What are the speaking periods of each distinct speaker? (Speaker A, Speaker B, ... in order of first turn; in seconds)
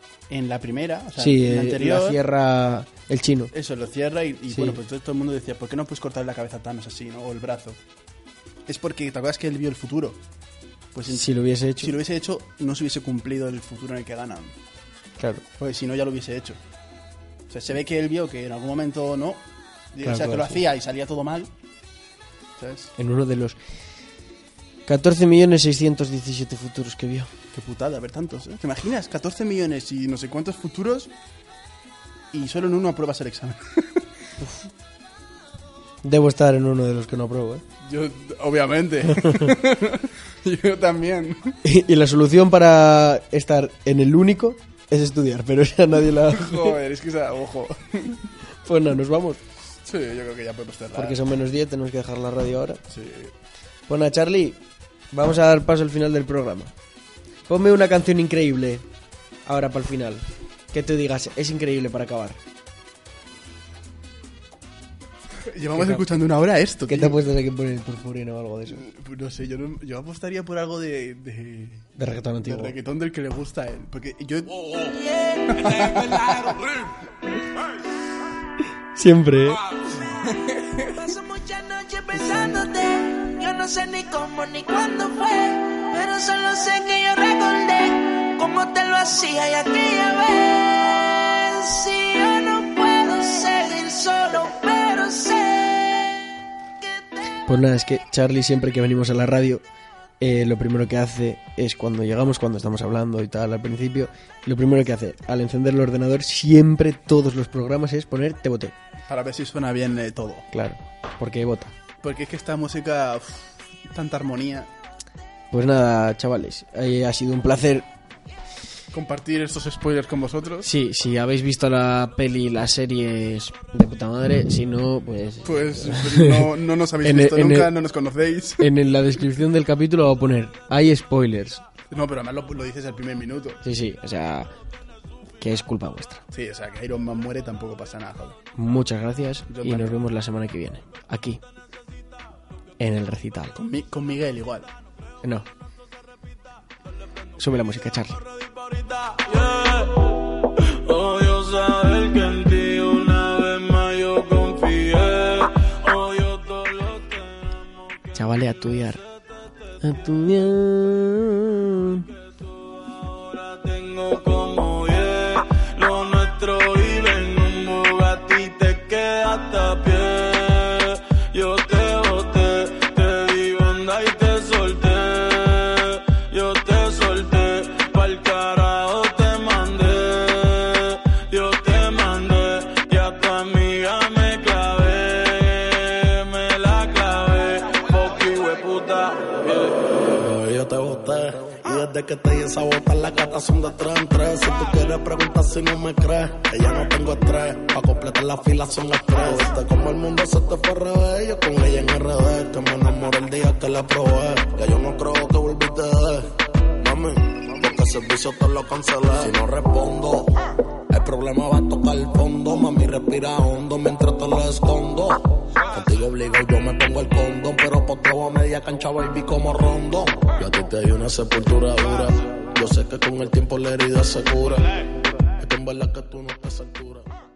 Speaker A: 0.3-2.2, 3.5-7.8, 8.7-10.2, 10.9-14.5, 15.6-16.6, 17.5-21.5, 22.6-22.9, 27.5-31.1, 32.3-34.1, 37.8-41.6, 46.0-48.2, 49.8-51.2, 52.9-53.3, 65.4-67.2, 68.7-71.9, 72.4-74.7, 75.5-76.7, 109.1-110.5, 112.0-114.7, 118.9-120.7, 125.4-128.7, 131.9-133.6, 136.3-138.4, 139.5-140.0, 143.5-144.7
Speaker B: 1.2-3.5, 4.5-4.8, 11.1-11.9, 15.2-15.4, 20.0-20.6, 23.0-23.6, 24.9-27.3, 34.4-34.6, 36.0-37.6, 39.2-39.5, 41.6-46.8, 48.6-49.4, 50.9-52.8, 53.9-54.6, 55.1-56.7, 57.5-58.8, 59.5-62.4, 65.7-66.0, 66.9-68.8, 72.0-72.8, 78.9-79.6, 97.5-99.6, 100.2-108.7, 110.5-111.7, 115.5-117.8, 120.6-126.5, 127.0-127.8, 128.6-131.6, 133.6-134.5, 135.4-136.2, 138.5-141.4, 142.8-143.6, 145.2-145.5, 147.4-148.2, 158.1-159.0, 159.8-162.1
Speaker C: 74.7-76.5, 80.8-96.3, 96.8-97.2
Speaker D: 149.1-159.0, 162.3-189.9
Speaker E: 190.0-210.4, 210.9-224.9, 225.4-227.1